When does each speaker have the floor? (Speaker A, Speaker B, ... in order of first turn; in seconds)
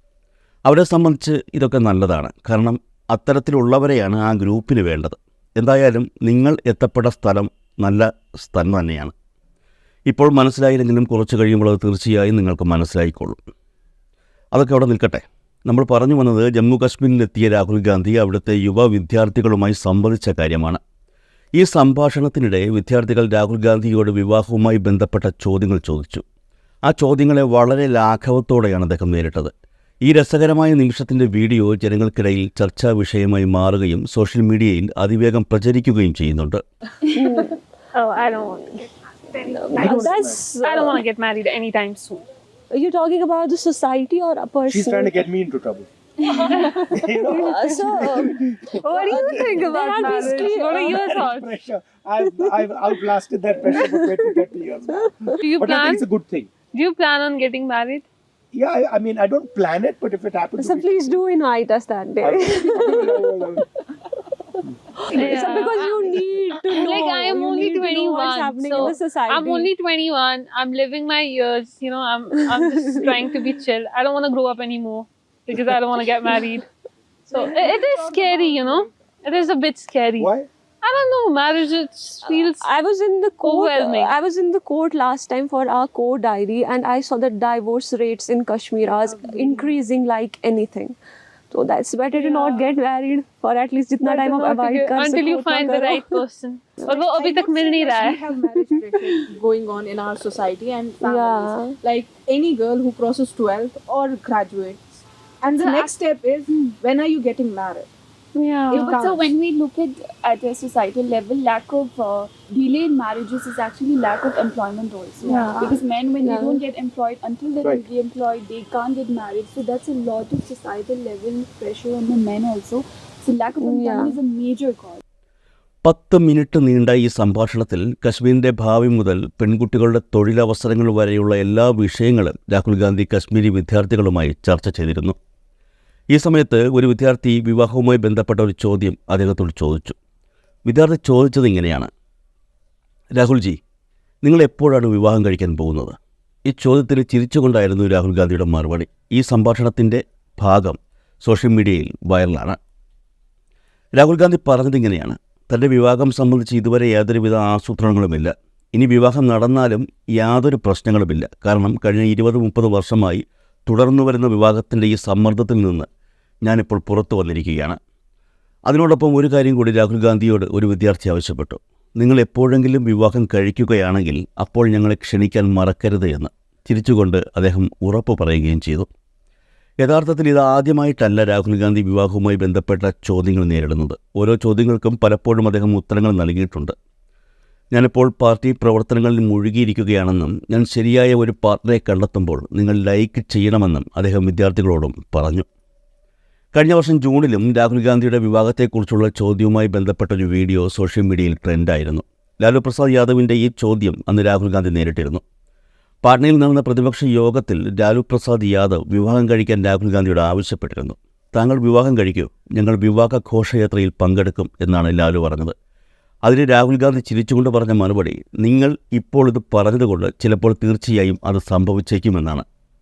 Speaker A: 0.7-9.1, 10.1-13.4, 14.5-20.8, 21.6-26.2, 26.9-36.6, 125.8-135.2, 136.1-140.0, 140.7-141.9, 143.2-143.6, 144.2-152.6, 154.0-165.9, 166.4-167.8, 168.7-178.9, 179.8-186.7, 187.7-195.5, 196.5-205.2, 206.0-215.5, 216.2-222.4
Speaker B: 37.1-37.6, 39.4-41.0, 42.7-45.1, 46.6-48.4, 49.0-51.2, 52.2-52.6, 53.6-55.1, 60.6-63.6, 65.1-69.7, 72.4-73.2, 82.2-91.0, 91.5-96.2, 101.0-101.8, 116.2-116.6, 123.6-124.2
Speaker C: 37.9-42.2, 46.4-46.8, 48.8-51.6, 55.4-56.1, 56.7-58.1, 65.1-66.0, 66.7-76.7, 77.3-82.7, 83.4-84.2, 92.1-92.6, 94.0-98.2, 108.4-109.0, 115.2-115.7
Speaker D: 39.8-40.5, 44.7-45.9, 46.4-56.5, 58.5-61.2, 62.2-63.6, 80.2-80.5
Speaker E: 77.3-79.0, 89.1-89.7, 96.9-104.9, 105.4-107.9, 108.7-109.3, 115.2-115.7
Speaker F: 108.7-125.0